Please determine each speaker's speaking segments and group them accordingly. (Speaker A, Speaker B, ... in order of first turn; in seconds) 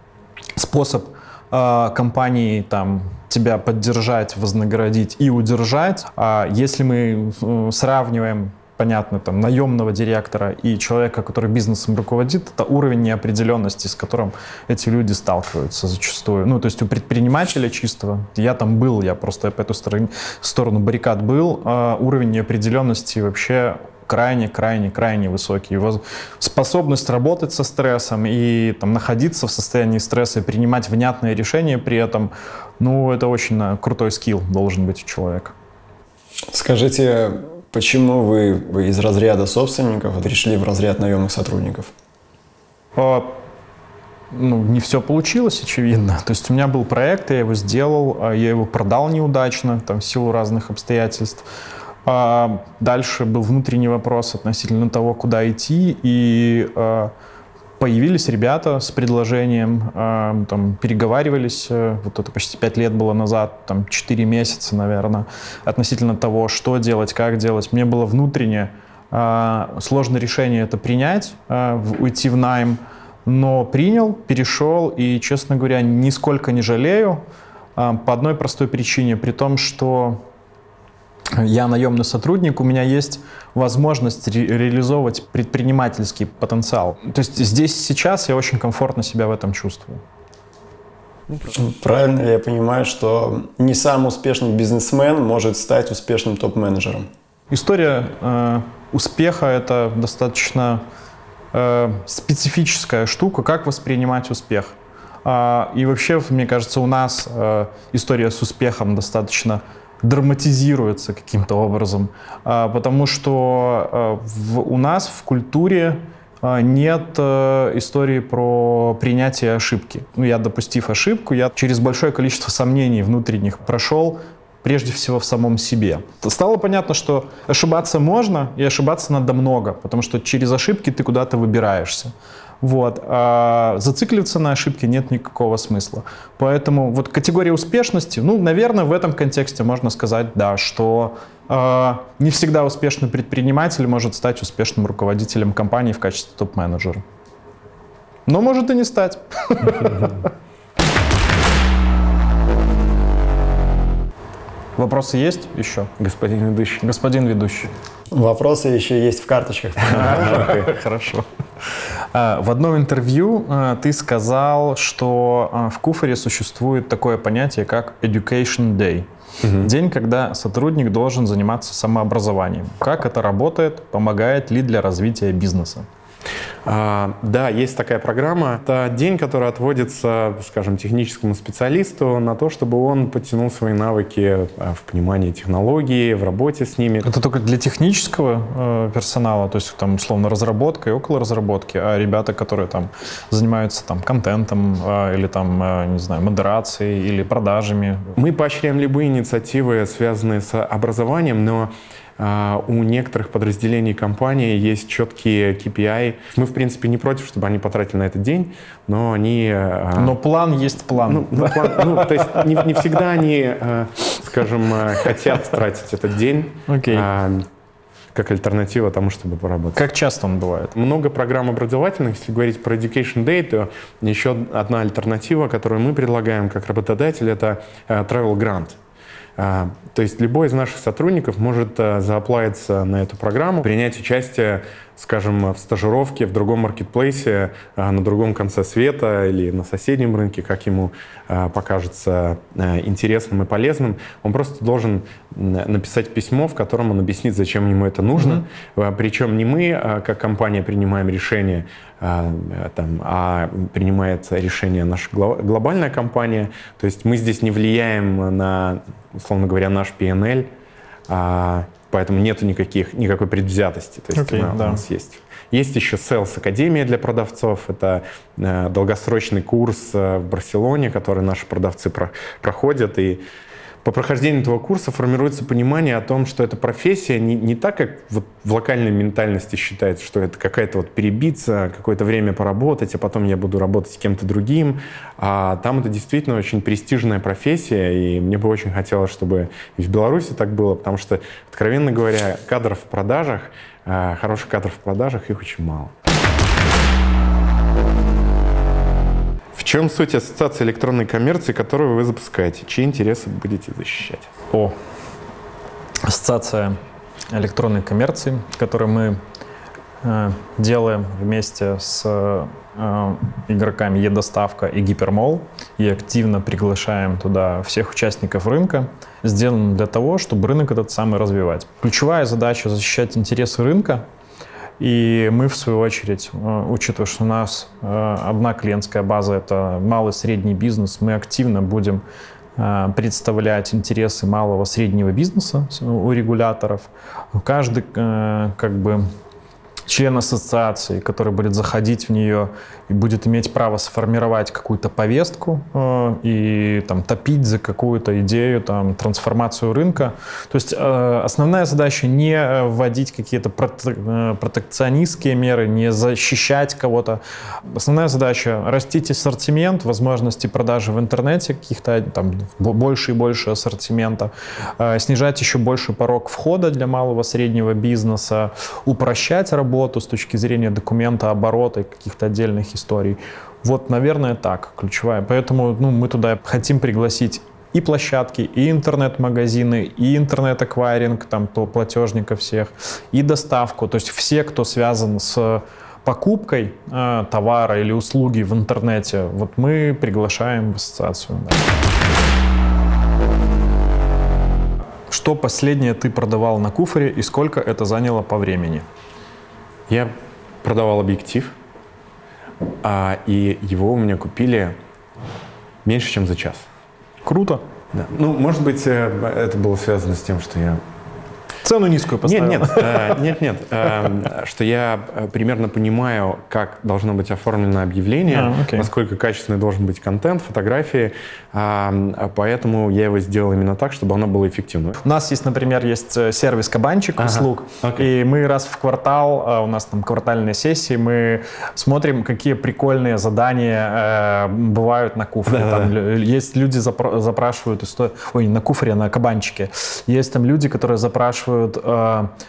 Speaker A: 0.6-35.5, 43.0-43.4, 44.3-51.5, 52.0-57.1, 57.8-77.2, 77.8-80.2, 81.3-90.0, 97.5-100.8, 101.5-147.0, 148.3-150.2, 154.8-155.9, 156.8-157.7, 159.9-161.2, 162.1-175.9, 187.0-198.2, 210.0-212.7, 216.7-217.1, 219.8-220.8, 264.1-264.8, 306.0-306.8, 307.3-309.2, 310.0-324.1, 324.8-332.0, 332.6-339.1, 339.9-391.6, 395.1-398.9, 407.2-407.6, 411.6-413.2, 418.3-418.9, 425.0-442.3
Speaker B: 36.5-41.9, 91.4-97.1, 158.1-160.5
Speaker C: 156.0-156.8, 160.0-160.7, 169.4-169.7, 176.6-187.1, 198.2-210.2, 211.0-217.4, 218.1-219.8, 220.7-228.8, 229.4-260.5, 261.1-273.2, 273.8-295.9, 299.5-304.3, 399.9-401.5, 402.8-404.8, 405.8-406.6, 407.9-410.8, 412.2-425.0, 427.2-428.1, 435.5-435.9